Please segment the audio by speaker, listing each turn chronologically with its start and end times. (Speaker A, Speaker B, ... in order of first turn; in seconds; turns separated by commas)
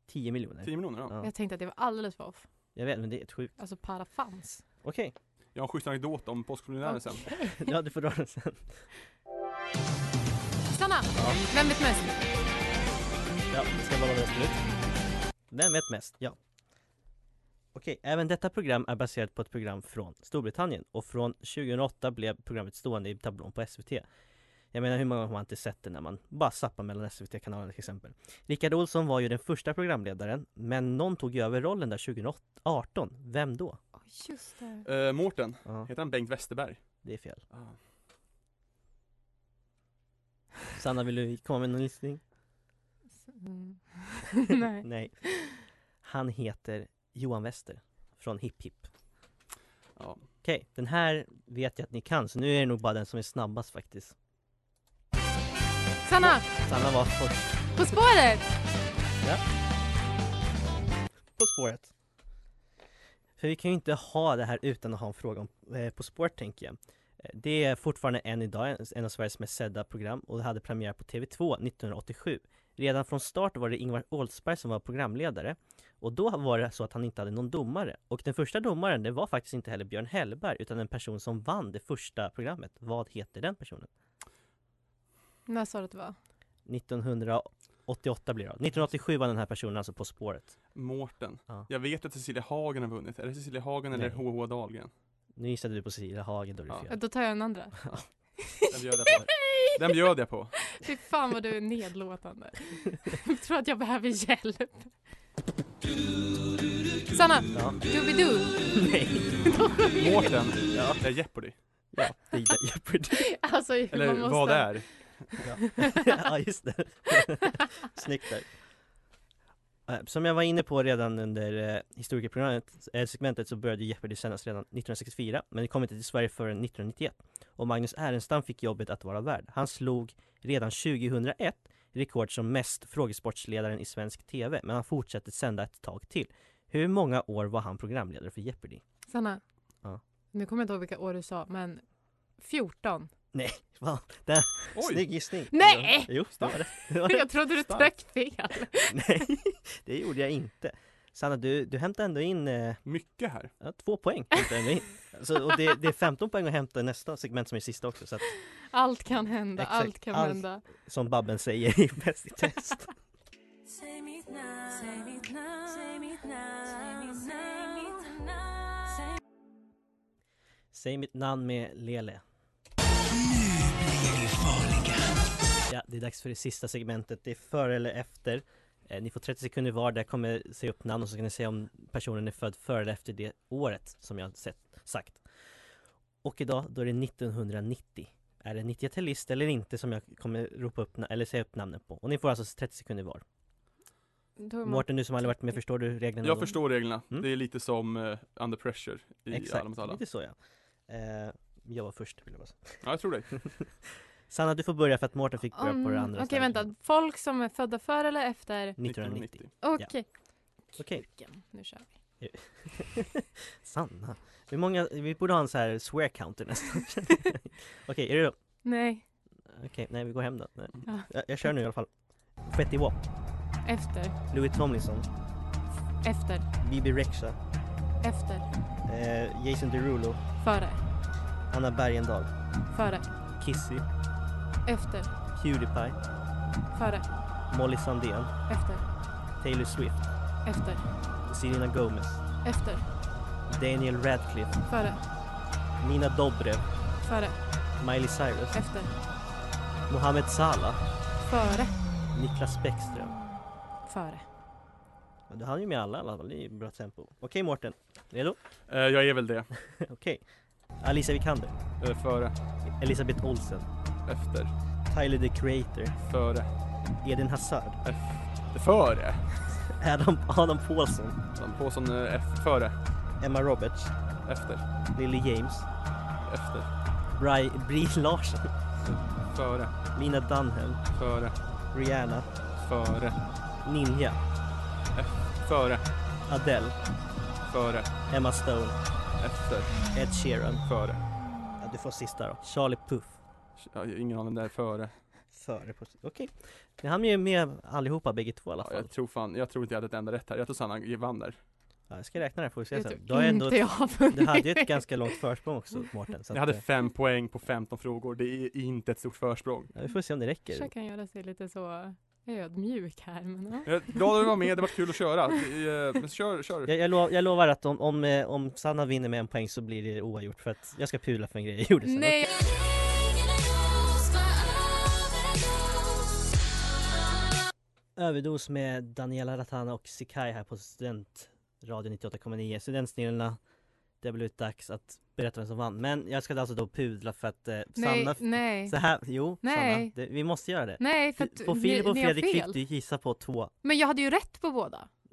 Speaker A: 0.1-1.3, Speaker B: 0.6-1.1, Speaker C: 1.2-2.5, Speaker A: 2.8-3.5, Speaker C: 3.6-4.6, Speaker A: 4.8-5.2, Speaker B: 5.5-7.3, Speaker C: 6.9-7.7, Speaker A: 7.5-8.8, Speaker C: 10.7-12.2, Speaker A: 11.2-11.4, Speaker A: 13.5-14.6, Speaker A: 15.5-16.4, Speaker A: 17.7-24.1, Speaker A: 24.7-33.8, Speaker C: 34.0-34.9, Speaker B: 34.9-37.8, Speaker A: 37.0-37.4, Speaker A: 40.8-42.2, Speaker C: 43.3-45.6, Speaker A: 44.8-45.3, Speaker A: 46.0-48.9, Speaker B: 50.0-50.2, Speaker A: 50.4-54.1, Speaker C: 56.0-56.5, Speaker A: 56.2-57.6, Speaker C: 57.8-58.5, Speaker A: 61.4-61.9, Speaker A: 63.4-83.9, Speaker C: 85.5-86.2, Speaker A: 86.7-90.6, Speaker B: 90.8-94.9, Speaker A: 93.9-94.2, Speaker A: 95.4-97.0, Speaker C: 96.9-97.9, Speaker C: 98.4-99.8, Speaker B: 98.7-100.6, Speaker C: 100.7-104.9, Speaker C: 107.1-108.5, Speaker A: 107.5-107.8, Speaker A: 108.7-109.5, Speaker C: 109.5-110.3, Speaker B: 110.0-111.6, Speaker A: 110.7-111.3, Speaker A: 111.9-113.3, Speaker C: 113.1-115.1, Speaker B: 113.9-115.3, Speaker A: 115.4-118.5, Speaker A: 119.9-138.8, Speaker C: 139.1-139.4, Speaker C: 140.3-141.8, Speaker C: 142.4-143.1, Speaker A: 143.3-147.9, Speaker B: 144.8-145.0, Speaker C: 145.5-149.2, Speaker A: 148.9-152.8, Speaker B: 152.8-153.5, Speaker A: 153.6-158.3, Speaker C: 158.7-160.7, Speaker A: 159.6-162.9, Speaker C: 167.6-168.0, Speaker A: 170.7-172.2, Speaker A: 175.7-185.2, Speaker A: 186.2-193.2, Speaker C: 194.4-195.6, Speaker A: 194.6-196.6, Speaker B: 196.2-200.0, Speaker A: 199.3-200.4, Speaker A: 200.9-202.8, Speaker B: 202.8-203.5, Speaker A: 204.3-206.7, Speaker C: 205.6-208.8, Speaker A: 208.8-209.9, Speaker B: 208.8-209.5, Speaker C: 209.6-210.1, Speaker C: 210.7-211.9, Speaker A: 210.8-211.1, Speaker A: 212.2-218.3, Speaker C: 218.7-219.0, Speaker A: 219.5-221.9, Speaker A: 222.4-223.0, Speaker C: 223.7-224.2, Speaker A: 224.3-225.1, Speaker C: 226.0-226.5, Speaker A: 226.6-227.4, Speaker C: 228.0-228.4, Speaker A: 228.8-230.2, Speaker C: 230.4-230.8, Speaker A: 231.5-232.3, Speaker C: 232.7-233.1, Speaker A: 233.4-233.8, Speaker C: 234.7-235.1, Speaker A: 235.3-236.0, Speaker C: 236.7-237.1, Speaker A: 237.5-238.3, Speaker C: 238.5-238.8, Speaker A: 239.4-240.0, Speaker C: 240.4-240.9, Speaker A: 241.3-242.2, Speaker C: 242.4-242.8, Speaker A: 243.5-244.6, Speaker C: 244.7-245.0, Speaker A: 245.8-246.6, Speaker C: 247.0-247.4, Speaker A: 247.8-248.6, Speaker C: 248.5-248.9, Speaker A: 249.9-250.8, Speaker C: 251.2-251.8, Speaker A: 252.1-253.2, Speaker C: 253.9-254.2, Speaker A: 255.3-258.4, Speaker B: 258.7-259.5, Speaker A: 259.7-260.2, Speaker A: 260.8-261.6, Speaker B: 261.8-262.3, Speaker A: 262.7-263.7, Speaker B: 264.1-264.5, Speaker A: 264.9-265.9, Speaker B: 266.0-266.5, Speaker A: 267.0-267.8, Speaker B: 267.8-269.3, Speaker A: 269.7-271.2, Speaker B: 271.4-272.8, Speaker A: 273.2-273.9, Speaker B: 274.3-274.6, Speaker A: 274.9-275.7, Speaker B: 276.3-276.7, Speaker A: 277.2-278.5, Speaker B: 278.9-279.7, Speaker A: 279.9-280.9, Speaker B: 280.9-281.4, Speaker A: 281.7-282.3, Speaker B: 282.6-283.2, Speaker A: 283.6-284.2, Speaker B: 284.9-285.8, Speaker A: 286.3-286.8, Speaker B: 287.5-287.9, Speaker A: 288.1-288.8, Speaker B: 289.2-289.9, Speaker A: 289.9-290.7, Speaker B: 290.7-291.0, Speaker A: 291.6-293.2, Speaker B: 293.6-295.0, Speaker A: 295.3-298.9, Speaker B: 298.6-301.4, Speaker A: 301.9-306.6, Speaker C: 302.7-304.9, Speaker B: 306.3-309.7, Speaker A: 309.7-310.7, Speaker C: 310.5-313.7, Speaker B: 313.7-316.7, Speaker A: 316.7-322.3, Speaker C: 321.9-322.3, Speaker A: 328.0-333.4, Speaker A: 334.0-343.5, Speaker C: 337.8-338.8, Speaker C: 339.4-339.9, Speaker C: 340.8-342.6, Speaker C: 343.6-344.9